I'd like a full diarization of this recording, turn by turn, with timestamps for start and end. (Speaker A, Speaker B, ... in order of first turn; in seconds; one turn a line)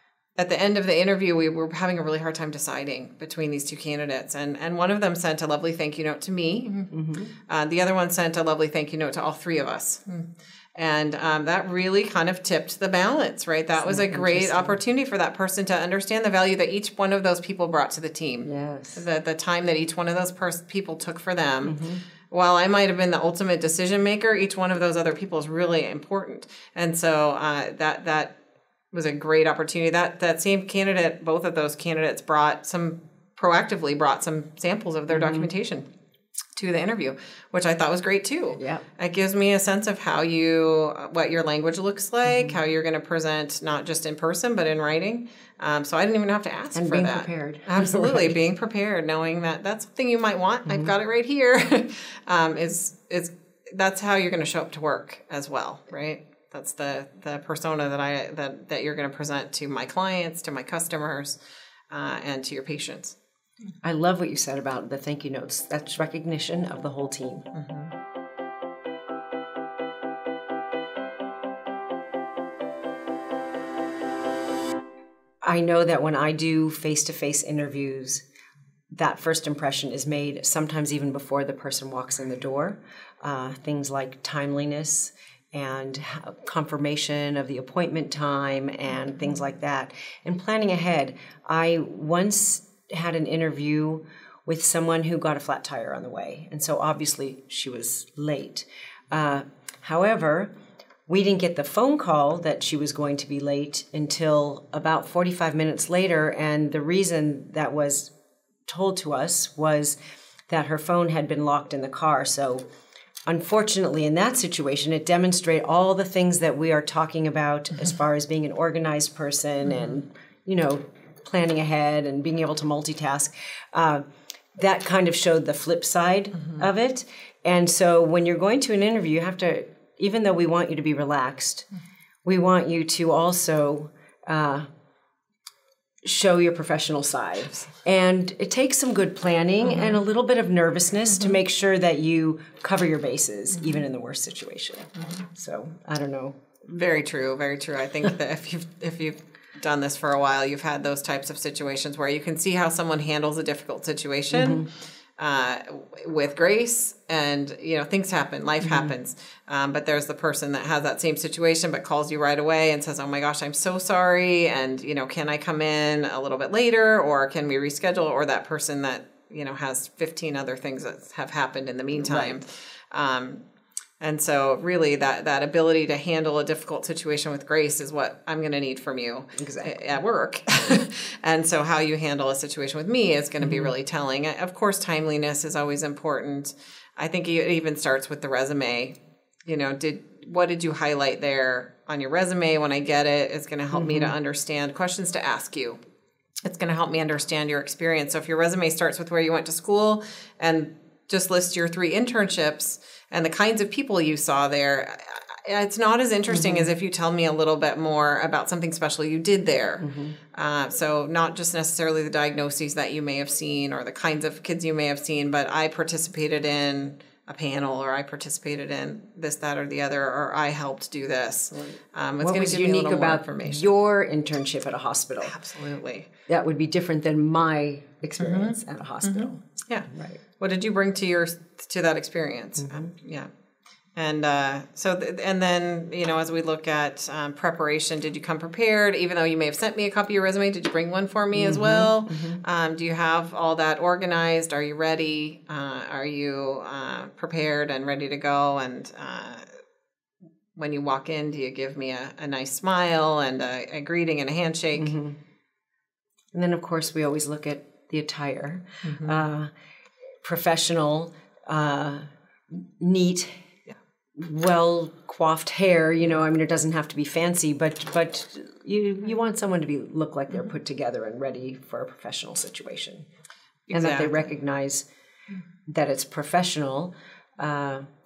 Speaker A: 0.4-6.9
Speaker B: 6.9-7.3
Speaker A: 7.5-21.8
Speaker B: 13.8-14.8
Speaker B: 18.4-19.0
Speaker B: 21.6-22.0
Speaker A: 22.3-28.3
Speaker A: 28.9-35.9
Speaker B: 35.1-35.5
Speaker A: 36.5-61.4
Speaker B: 38.5-38.8
Speaker B: 42.2-42.6
Speaker B: 46.7-48.4
Speaker B: 50.6-50.9
Speaker A: 61.9-63.1
Speaker B: 63.8-67.5
Speaker A: 67.5-67.9
Speaker B: 75.4-78.2
Speaker B: 78.9-100.5
Speaker B: 101.1-108.1
Speaker B: 108.7-110.0
Speaker B: 110.5-112.6
Speaker B: 113.3-131.7
Speaker A: 119.7-120.0
Speaker B: 132.2-134.7
Speaker B: 136.0-146.4
Speaker A: 139.7-140.0
Speaker A: 146.7-173.4
Speaker B: 154.3-154.7
Speaker B: 158.6-158.9
Speaker B: 171.9-172.4
Speaker A: 174.0-195.8
Speaker B: 179.3-179.8
Speaker B: 183.4-183.7
Speaker B: 193.7-194.1
Speaker A: 196.4-223.7
Speaker B: 206.3-206.7
Speaker B: 209.8-210.2
Speaker B: 221.5-225.3
Speaker A: 225.2-226.1
Speaker B: 226.3-229.3
Speaker A: 228.2-233.3
Speaker B: 229.9-230.2
Speaker B: 232.6-232.9
Speaker A: 233.9-249.4
Speaker B: 241.3-242.4
Speaker A: 250.6-254.9
Speaker B: 254.7-255.2
Speaker B: 256.3-259.5
Speaker A: 258.8-259.2
Speaker B: 260.2-263.4
Speaker B: 264.1-273.1
Speaker A: 273.7-274.3
Speaker B: 273.7-274.9
Speaker B: 275.7-277.9